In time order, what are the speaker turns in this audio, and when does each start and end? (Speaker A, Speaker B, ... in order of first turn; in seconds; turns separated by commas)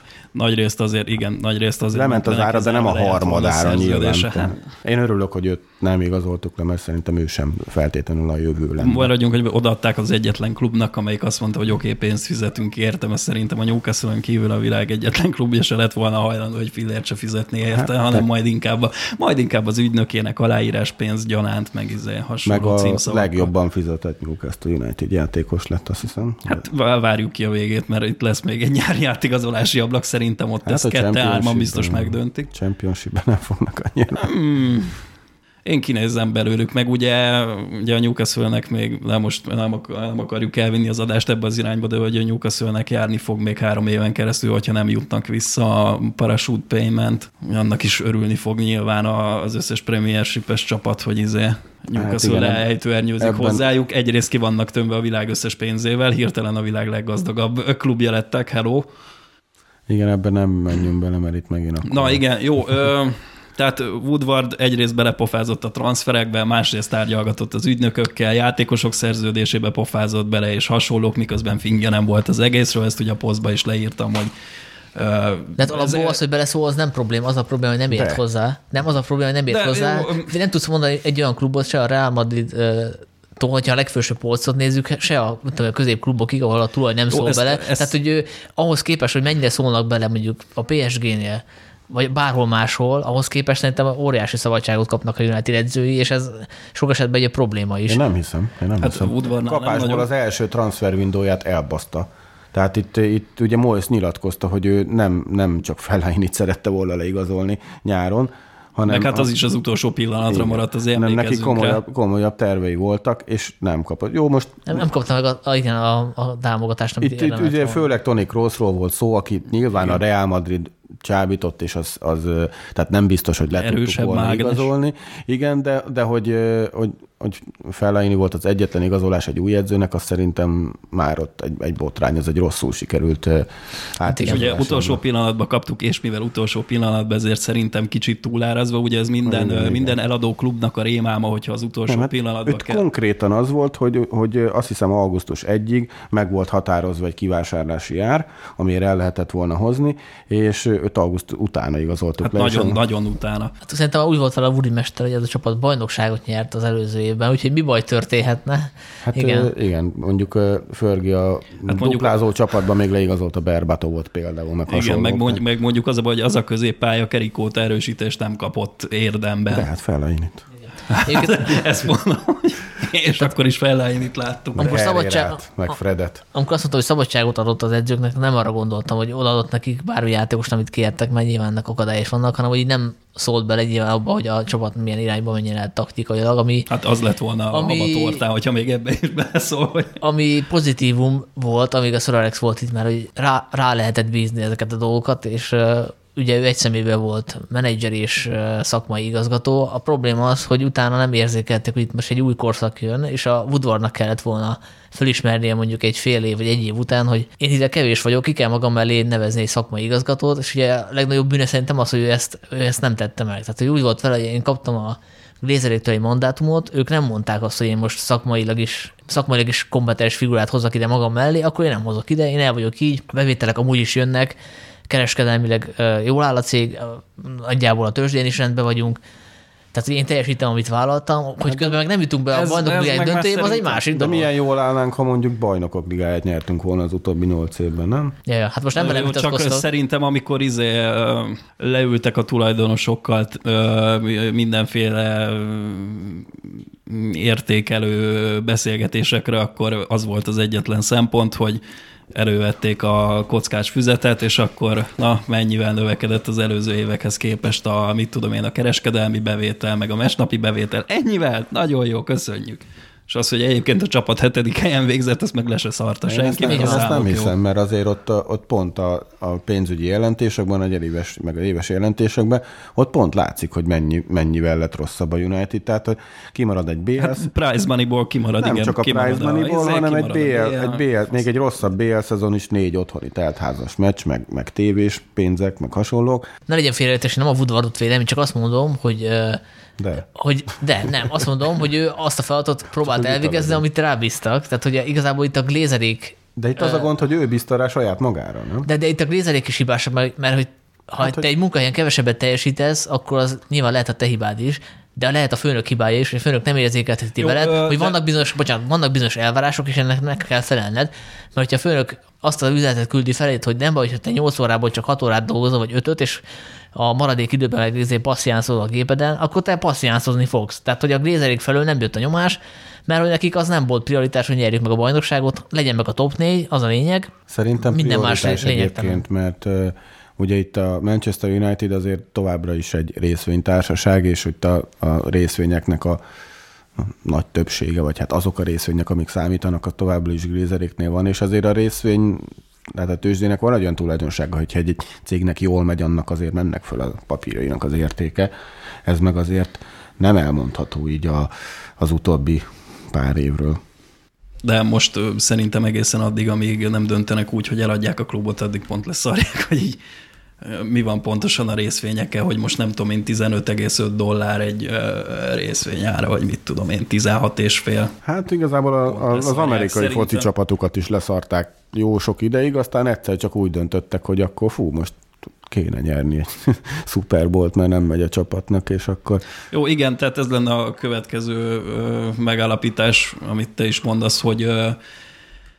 Speaker A: 0.3-4.6, Speaker B: 1.9-9.1, Speaker A: 8.8-23.5, Speaker B: 17.7-18.2, Speaker B: 22.4-26.6, Speaker A: 26.5-32.5, Speaker B: 30.6-34.3, Speaker A: 34.2-35.0, Speaker A: 35.6-58.9, Speaker B: 51.9-52.6, Speaker B: 53.2-53.6, Speaker B: 59.9-62.2, Speaker A: 61.9-74.3, Speaker A: 74.9-76.2, Speaker C: 75.6-98.0, Speaker B: 77.9-78.2, Speaker A: 79.5-80.3, Speaker A: 87.1-87.9, Speaker B: 97.9-109.3, Speaker A: 98.8-100.1, Speaker A: 108.9-111.8, Speaker B: 110.3-114.8, Speaker C: 114.7-117.8, Speaker B: 117.0-135.0, Speaker A: 123.5-124.7, Speaker C: 134.1-134.4, Speaker A: 134.2-142.8, Speaker B: 139.2-139.9, Speaker B: 141.9-152.8, Speaker A: 152.2-153.5, Speaker C: 153.6-159.5, Speaker B: 159.0-165.4, Speaker A: 161.7-162.2, Speaker A: 164.7-169.7, Speaker B: 169.5-170.4, Speaker A: 170.9-174.8, Speaker C: 171.1-171.4, Speaker B: 174.5-176.2, Speaker C: 174.6-175.4, Speaker C: 176.3-186.7, Speaker A: 186.7-190.0, Speaker C: 187.5-188.2, Speaker C: 190.0-224.4, Speaker C: 224.9-229.0, Speaker C: 229.7-234.2, Speaker A: 232.3-233.8, Speaker B: 233.8-238.1, Speaker C: 238.3-239.6, Speaker A: 238.7-246.3, Speaker A: 246.9-251.6, Speaker A: 252.1-267.3, Speaker B: 266.1-277.3, Speaker C: 266.5-266.8, Speaker A: 277.0-280.8, Speaker B: 278.4-286.3, Speaker C: 286.5-289.4, Speaker B: 289.8-290.0, Speaker C: 290.0-296.9, Speaker B: 292.8-293.6, Speaker B: 296.4-298.7, Speaker C: 298.6-316.2, Speaker A: 307.2-308.0, Speaker C: 316.7-327.1, Speaker B: 327.3-336.0, Speaker C: 327.7-329.0, Speaker B: 336.8-348.3, Speaker B: 348.9-353.6, Speaker A: 354.4-359.8, Speaker A: 360.4-367.9, Speaker B: 368.0-379.2, Speaker A: 368.9-370.3, Speaker A: 379.5-384.8